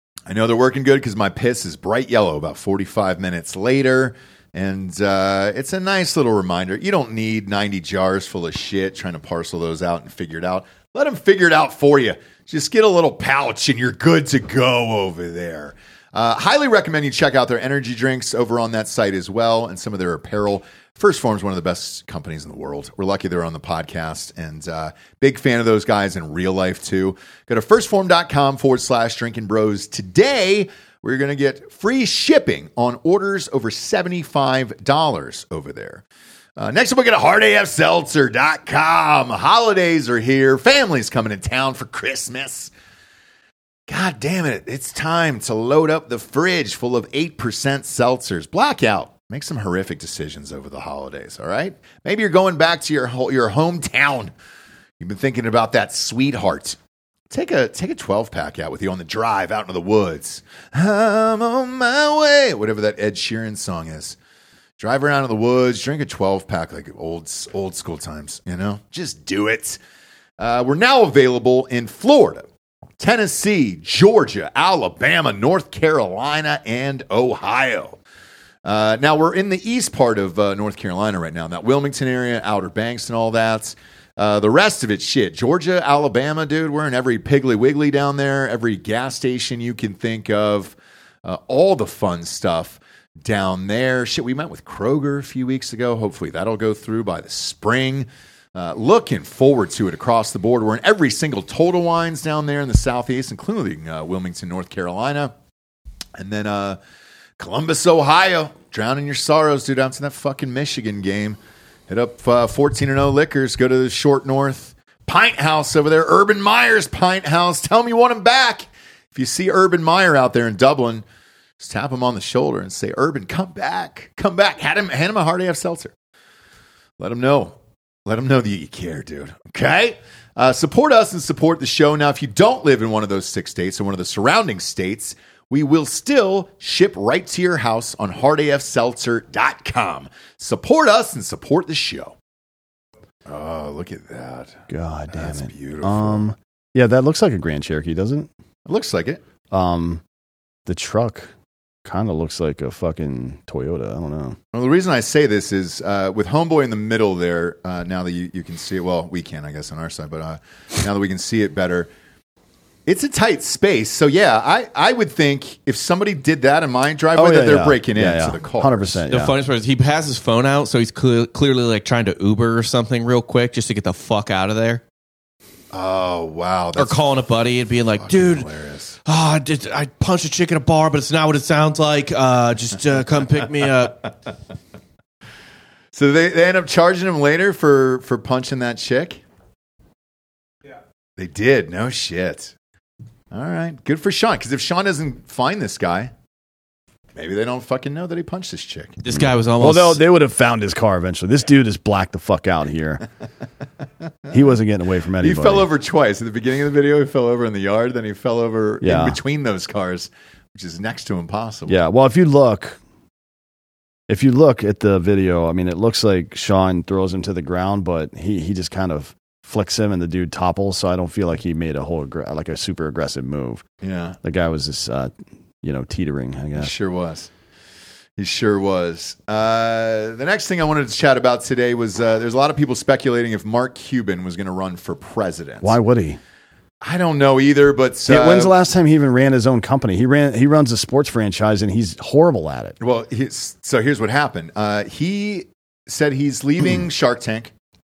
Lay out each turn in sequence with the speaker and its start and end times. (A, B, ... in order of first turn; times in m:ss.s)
0:00.3-0:36.0 A
0:36.6-0:42.7 A
0:43.9-0:54.3 A
0:55.0-0:56.8 A
0:57.3-1:04.2 A
1:04.8-1:09.8 A
1:10.4-1:12.4 A
1:13.0-1:18.0 A
1:18.6-1:45.3 A
1:46.2-1:46.8 A
1:47.4-2:01.0 A
2:01.6-2:05.9 A
2:07.0-2:22.2 A
2:23.3-2:26.2 A
2:24.7-2:28.3 B
2:28.6-2:29.2 A
2:29.5-2:30.0 B
2:30.6-2:31.3 B
2:31.8-2:34.4 B
2:34.5-2:41.9 A
2:42.8-2:49.0 A
2:47.1-2:49.4 B
2:49.1-2:54.8 C
2:55.7-2:57.0 A
2:56.8-2:58.5 C
2:58.0-2:59.0 A
2:59.0-3:04.1 C
3:05.9-3:09.2 A
3:11.2-3:12.5 A
3:13.3-3:16.1 A
3:17.1-3:19.0 A
3:19.0-3:20.0 C
3:19.1-3:23.0 B
3:24.3-3:25.7 B
3:25.2-3:31.8 A
3:28.8-3:29.2 B
3:31.7-3:32.8 B
3:34.1-3:43.6 B
3:43.8-3:44.2 A
3:44.2-3:45.1 B
3:45.6-3:46.7 B
3:46.6-3:47.3 A
3:48.2-3:55.8 A
3:55.6-3:56.2 B
3:56.8-3:58.6 A
3:58.0-4:02.8 B
4:02.8-4:07.5 A